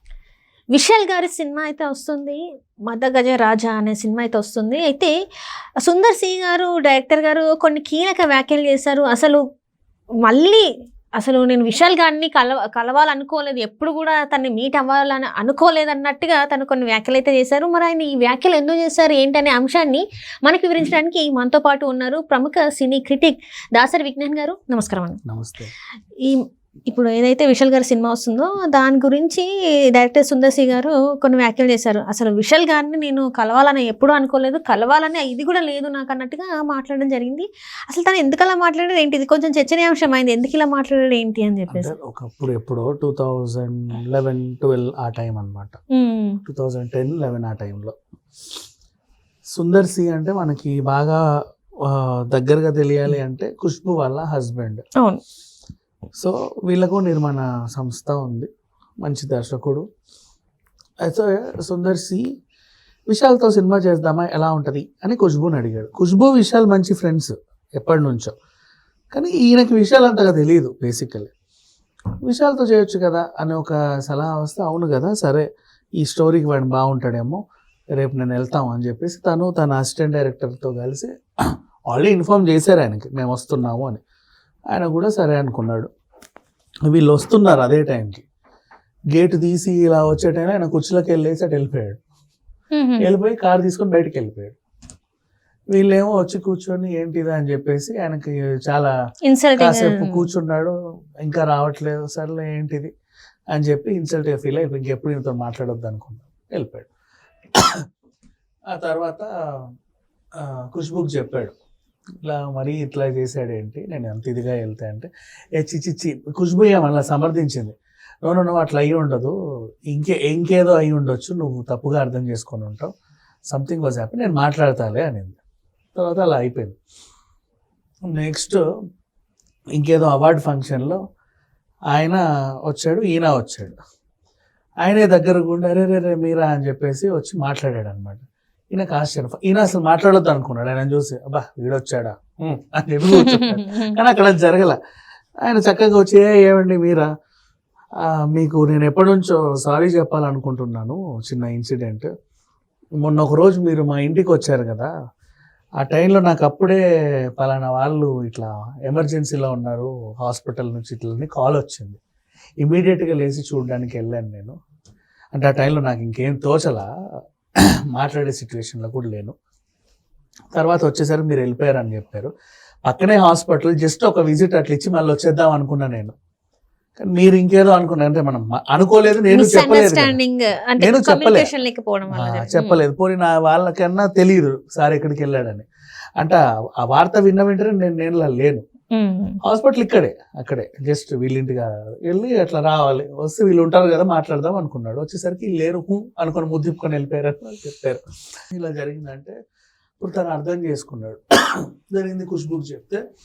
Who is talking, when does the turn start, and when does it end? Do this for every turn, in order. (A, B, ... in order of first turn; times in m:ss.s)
0:00.7-0:05.1 A
0:05.8-0:09.4 A
0:10.2-0:10.6 A
0:11.2-0:25.2 A
0:25.2-0:25.7 B
0:26.9-0:41.9 A
0:41.7-0:45.8 B
0:45.9-0:46.4 A
0:46.4-0:47.9 B
0:49.5-0:51.2 B
0:51.8-0:54.8 B
0:56.2-0:58.5 B
0:59.0-0:59.8 B
1:01.0-1:02.2 B
1:03.1-1:08.3 B
1:09.1-1:11.3 B
1:12.2-1:15.4 B
1:16.0-1:17.4 B
1:17.9-1:24.0 B
1:24.7-1:25.9 B
1:26.9-1:28.2 B
1:29.1-1:32.0 B
1:32.7-1:33.0 A
1:33.0-1:34.6 B
1:35.7-1:38.9 B
1:39.2-1:40.2 A
1:39.6-1:42.9 B
1:43.5-1:46.9 B
1:47.6-1:47.8 B
1:48.7-1:49.7 B
1:50.4-1:51.5 B
1:52.2-1:59.3 B
1:59.9-2:02.9 B
2:03.5-2:05.4 B
2:05.9-2:06.8 B
2:08.1-2:08.6 B
2:09.8-2:11.0 B
2:11.9-2:13.8 B
2:14.8-2:24.8 B
2:23.1-2:23.9 A
2:25.4-2:27.1 B
2:28.0-2:32.1 B
2:33.0-2:34.9 B
2:35.8-2:36.8 B
2:37.4-2:42.0 B
2:42.6-2:44.6 B
2:45.3-2:46.9 B
2:47.9-2:49.3 B
2:50.5-2:52.3 B
2:52.8-2:56.1 B
2:57.0-3:00.2 B
2:59.3-3:02.8 A
3:00.8-3:01.5 B
3:02.1-3:05.7 B
3:06.2-3:08.6 B
3:08.9-3:09.4 A
3:09.4-3:19.3 B
3:20.0-3:23.0 B